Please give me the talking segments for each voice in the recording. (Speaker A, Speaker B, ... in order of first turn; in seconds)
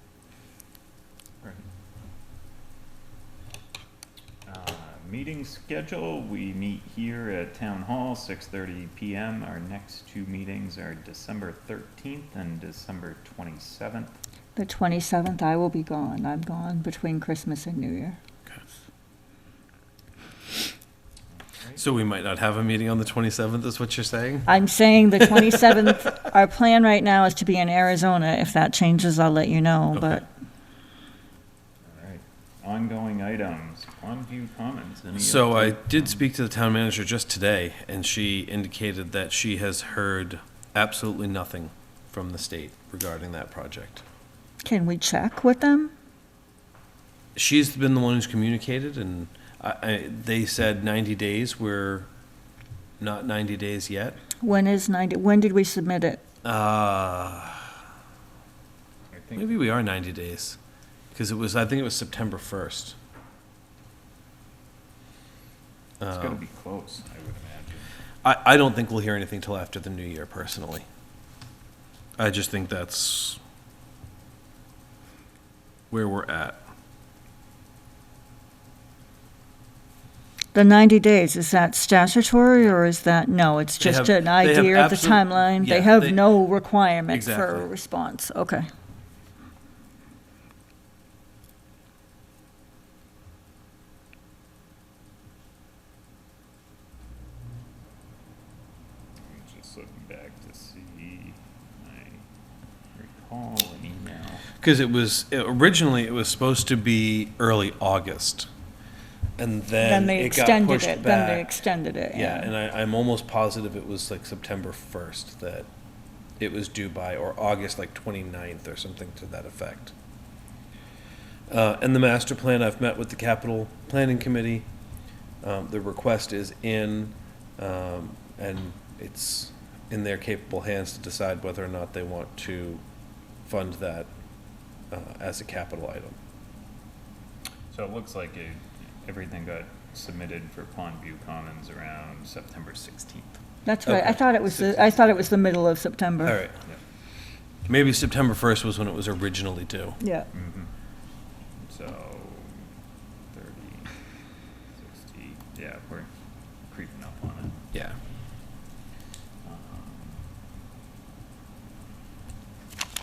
Speaker A: 4.5-14.2, 21.3-21.8, 31.8-36.2, 59.1-59.7, 66.1-67.9, 99.2-102.2, 103.0-104.4, 137.7-143.4, 150.3-150.7, 151.6-152.6, 153.3-153.9, 154.8-156.1, 156.7-157.7, 159.4-160.2
Speaker B: 14.6-18.2, 24.5-30.2, 44.6-45.9, 54.4-56.2, 80.5-88.7, 109.8-112.5, 143.7-146.4, 150.0-150.3
Speaker C: 21.8-24.5, 25.2-25.8, 29.9-30.2, 35.2-44.0, 47.4-52.1, 53.0-54.2, 56.4-57.7, 59.4-60.6, 61.1-63.0, 66.0-66.4, 68.2-70.8, 72.2-73.4, 75.9-76.6, 83.8-86.3, 87.1-87.7, 104.6-108.5, 109.4-111.5, 112.1-115.7, 116.4-119.9, 121.5-124.7, 125.4-132.8, 133.4-134.1, 134.9-136.2, 143.9-144.9, 146.2-146.6, 147.7-150.0